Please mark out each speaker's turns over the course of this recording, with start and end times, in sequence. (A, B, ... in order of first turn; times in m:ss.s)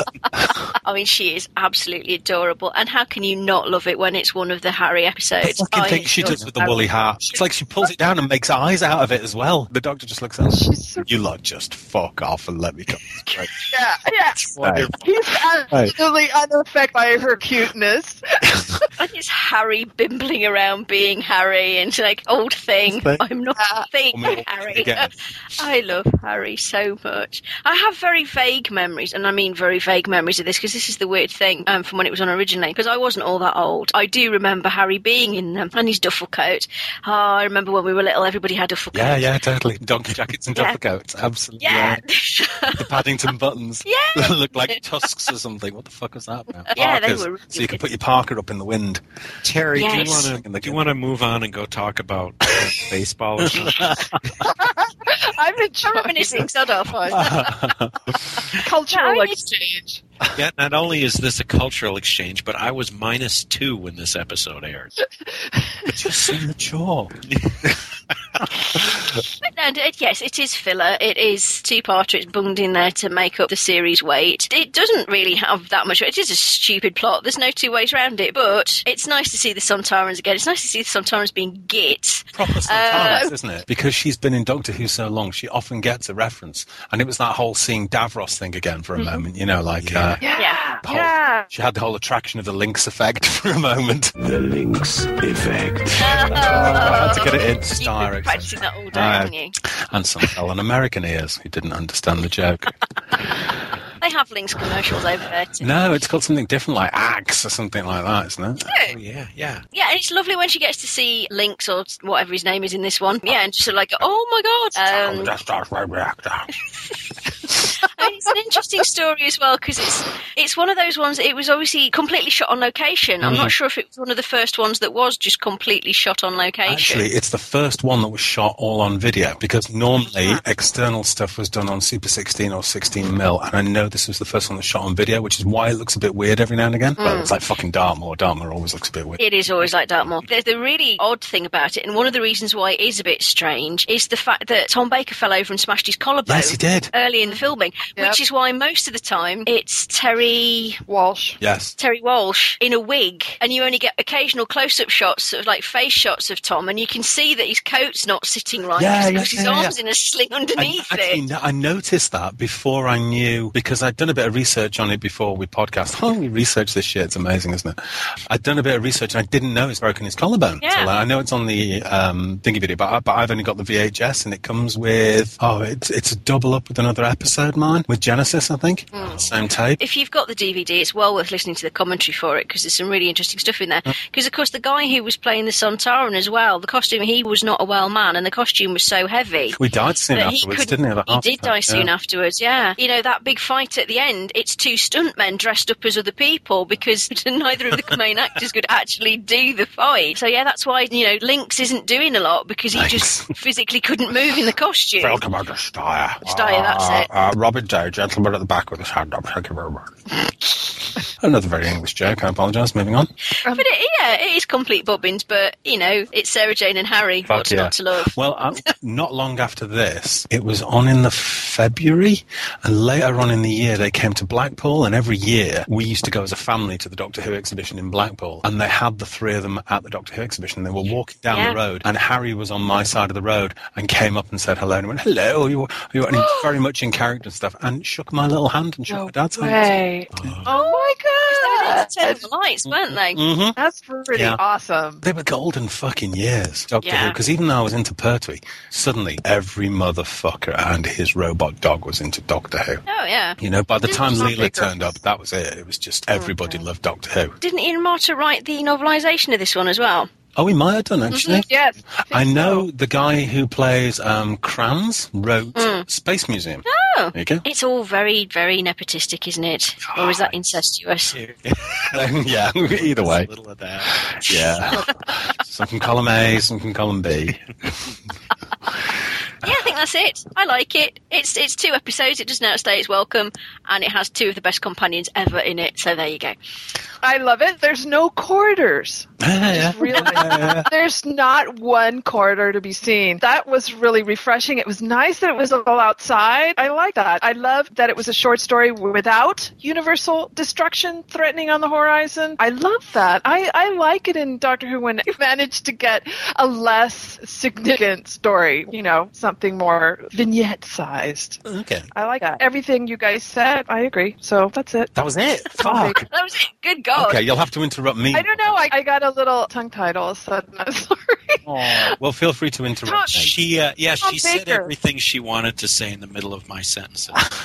0:00.3-0:00.7 A
0:00.8-0:06.4 B
0:05.4-0:13.5 A
0:06.2-0:06.9 C
0:10.5-0:11.1 C
0:13.7-0:18.8 C
0:14.4-0:15.1 D
0:14.6-0:15.0 A
0:15.7-0:16.0 A
0:19.0-0:39.3 B
0:22.9-0:23.2 A
0:23.6-0:23.9 C
0:24.1-0:25.1 A
0:38.9-0:42.0 A
0:40.5-0:40.8 B
0:41.6-0:42.9 B
0:42.7-0:49.0 A
0:43.8-0:44.8 B
0:46.7-0:47.8 B
0:49.4-0:54.3 D
0:49.7-0:50.8 A
0:49.8-0:50.3 B
0:53.4-0:54.2 A
0:54.4-0:56.5 C
0:55.8-0:57.5 B
0:57.1-0:58.5 A
0:58.6-1:00.0 C
0:58.9-0:59.4 B
1:00.3-1:04.9 D
1:05.2-1:05.9 C
1:05.9-1:07.8 A
1:07.3-1:07.6 D
1:08.4-1:09.1 A
1:09.5-1:23.3 B
1:22.3-1:30.2 A
1:22.9-1:23.3 C
1:29.0-1:29.2 C
1:29.8-1:30.2 D
1:30.2-1:31.5 C
1:30.4-1:30.6 B
1:30.8-1:34.2 A
1:34.2-1:36.3 E
1:36.0-1:39.5 B
1:36.4-1:42.8 A
1:44.0-1:45.7 B
1:45.6-1:48.7 A
1:48.7-1:49.0 B
1:48.9-1:49.6 D
1:49.7-1:55.3 B
1:54.8-1:56.5 A
1:57.6-2:07.1 B
2:03.2-2:03.5 A
2:06.7-2:19.2 A
2:10.2-2:10.4 B
2:17.0-2:17.3 B
2:19.2-2:30.8 B
2:26.3-2:26.9 A
2:30.9-2:31.4 C
2:31.4-2:31.8 A
2:31.8-2:41.2 B
2:38.8-2:39.8 A
2:40.6-2:59.8 A
2:50.6-2:50.9 B
2:59.0-2:59.2 B
2:59.8-3:09.6 B
3:09.5-3:11.9 A
3:10.1-3:25.2 B
3:22.7-3:23.3 A
3:25.0-3:30.0 A
3:26.2-3:27.1 B
3:31.0-3:33.1 A
3:33.4-3:38.2 B
3:37.2-4:00.4 A
3:51.3-3:51.6 B
3:56.2-3:56.5 C
3:58.9-4:02.2 C
4:00.2-4:00.5 D
4:00.5-4:03.2 B
4:02.7-4:03.6 A
4:03.6-4:05.0 C
4:04.1-4:04.4 A
4:05.0-4:12.8 A
4:06.8-4:07.2 B
4:12.9-4:14.6 B
4:13.4-4:17.4 A
4:13.9-4:14.7 C
4:17.4-4:20.1 B
4:20.4-4:21.5 A
4:21.1-4:21.4 B
4:21.3-4:22.7 C
4:22.1-4:27.4 A
4:25.6-4:25.9 B
4:26.7-4:31.2 B
4:29.9-4:30.3 A
4:31.1-4:34.7 D
4:31.9-4:33.3 A
4:33.8-4:37.9 A
4:39.4-4:46.4 B
4:47.0-5:11.4 C
4:49.2-4:50.7 A
5:11.4-5:11.9 A
5:11.9-5:14.9 C
5:15.0-5:16.1 A
5:15.6-5:16.0 C
5:16.1-5:17.2 B
5:17.0-5:18.7 A
5:18.1-5:22.0 C
5:21.4-5:23.4 A
5:22.8-5:23.2 C
5:23.1-5:27.3 D
5:24.0-5:24.7 C